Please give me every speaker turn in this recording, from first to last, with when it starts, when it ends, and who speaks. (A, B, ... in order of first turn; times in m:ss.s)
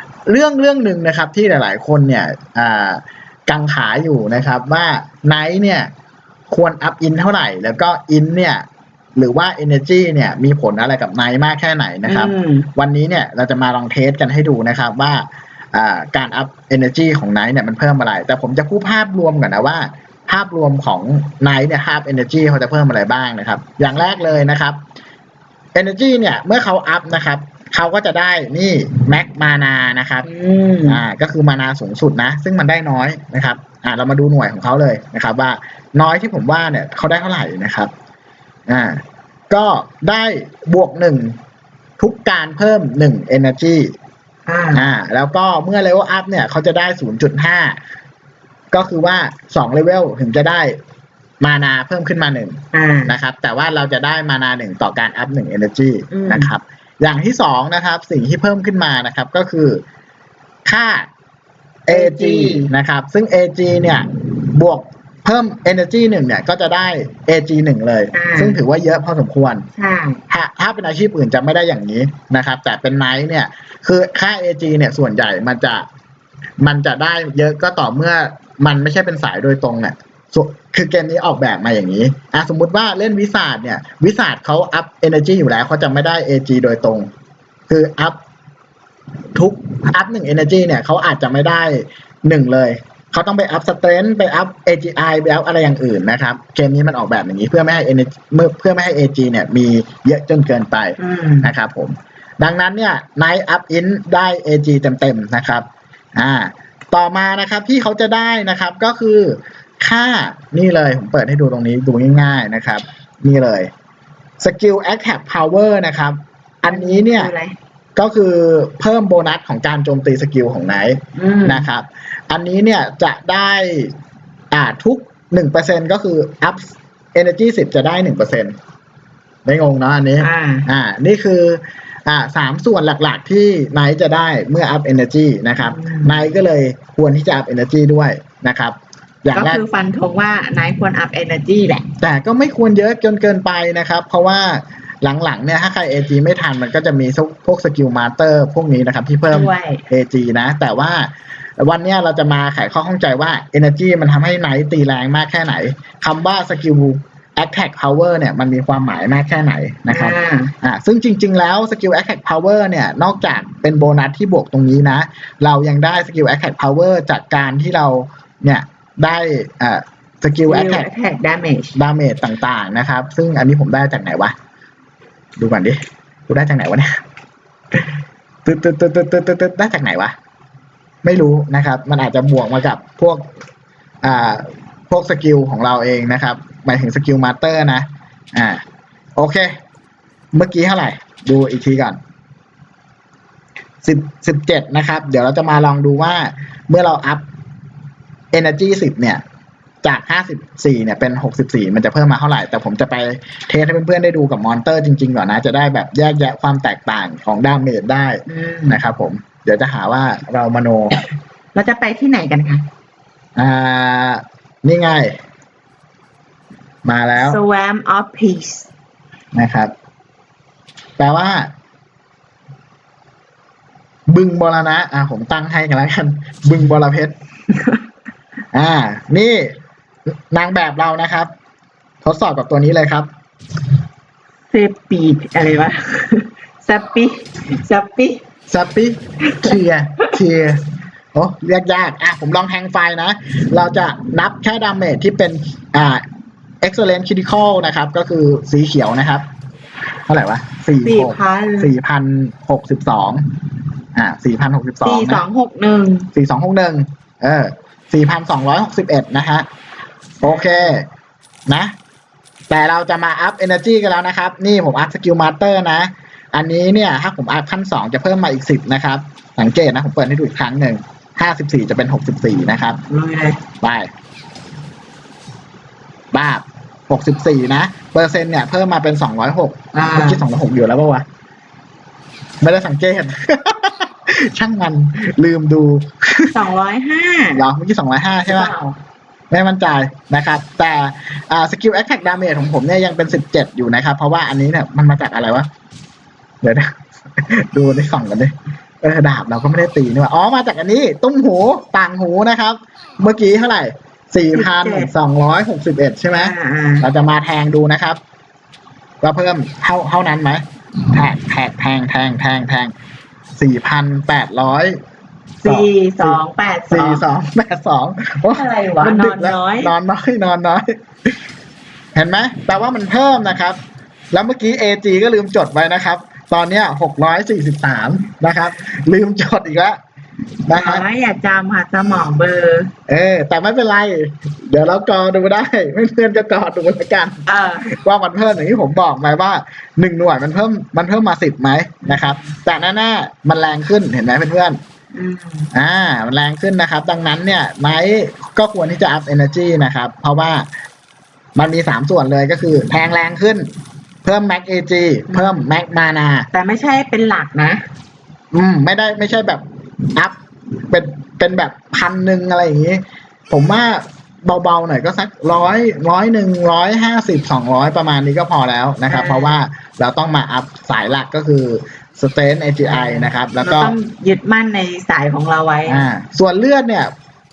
0:00.3-0:05.9 A
0:06.5-0:08.6 A
0:09.2-0:24.8 A
0:12.0-0:12.7 B
0:25.7-0:30.3 A
0:30.2-0:31.0 B
0:30.9-0:37.9 A
0:38.7-0:41.4 A
0:42.0-0:43.9 A
0:44.5-0:44.8 B
0:44.7-0:47.8 A
0:48.7-0:50.8 A
0:51.4-0:59.8 A
0:52.7-0:53.1 B
0:56.1-0:56.5 B
1:00.7-1:01.1 A
1:01.9-1:09.7 A
1:01.9-1:02.7 B
1:08.1-1:08.6 B
1:09.8-1:10.2 B
1:10.3-1:15.9 A
1:16.6-1:27.1 A
1:27.7-1:28.2 A
1:29.3-1:53.7 A
1:41.0-1:41.5 B
1:54.4-1:57.3 A
1:56.7-1:57.6 B
1:58.0-2:03.9 A
2:01.2-2:01.7 B
2:04.5-2:08.6 A
2:09.5-2:19.6 A
2:10.2-2:10.7 B
2:15.6-2:16.2 B
2:19.3-2:21.8 B
2:22.0-2:50.9 A
2:29.3-2:29.8 B
2:39.9-2:40.5 B
2:50.5-2:51.8 B
2:51.8-2:54.3 A
2:55.4-2:57.0 A
2:58.5-3:00.2 A
3:01.0-3:03.2 A
3:04.0-3:08.6 A
3:09.2-3:09.6 A
3:10.3-3:12.0 A
3:13.8-3:17.2 A
3:18.3-3:19.2 A
3:19.8-3:31.0 A
3:28.3-3:28.8 B
3:31.6-3:32.7 B
3:33.4-3:35.2 A
3:36.8-3:37.4 A
3:37.2-3:38.7 B
3:39.3-3:39.7 A
3:41.0-3:41.5 A
3:44.1-3:47.1 A
3:47.5-3:47.8 B
3:48.5-3:49.5 A
3:50.3-3:51.3 A
3:52.0-3:53.1 A
3:54.5-3:58.2 B
3:58.5-4:06.0 A
4:06.6-4:09.3 A
4:10.1-4:13.2 A
4:10.8-4:11.7 B
4:13.9-4:15.2 A
4:14.8-4:16.1 B
4:16.1-4:19.5 A
4:20.2-4:20.9 A
4:20.2-4:20.8 B
4:21.5-4:21.7 A
4:22.5-4:32.8 A
4:32.9-4:33.4 B
4:33.6-4:33.9 A
4:36.1-4:41.0 A
4:39.7-4:40.2 B
4:42.4-4:46.4 A
4:46.3-4:47.4 B
4:47.4-4:48.5 A
4:48.3-4:48.8 B
4:49.3-4:55.5 A
4:56.4-5:08.0 A
5:04.3-5:04.9 B
5:06.2-5:06.9 B
5:09.0-5:12.7 A
5:13.4-5:14.8 A
5:15.4-5:17.0 B
5:15.4-5:16.2 A
5:16.7-5:20.7 A
5:18.3-5:19.7 B
5:21.9-5:23.6 A
5:24.1-5:29.8 A
5:30.4-5:30.8 A
5:30.5-5:32.7 B
5:32.9-5:44.6 A
5:37.2-5:37.7 B
5:41.8-5:42.4 B
5:44.9-5:45.5 B
5:45.5-5:50.5 A
5:51.4-5:53.5 A
5:54.0-5:56.3 A
5:55.1-5:55.5 B
5:56.3-5:57.7 B
5:58.3-5:59.4 A
6:00.7-6:13.8 A
6:08.9-6:09.4 B
6:12.6-6:15.8 B
6:15.7-6:16.9 A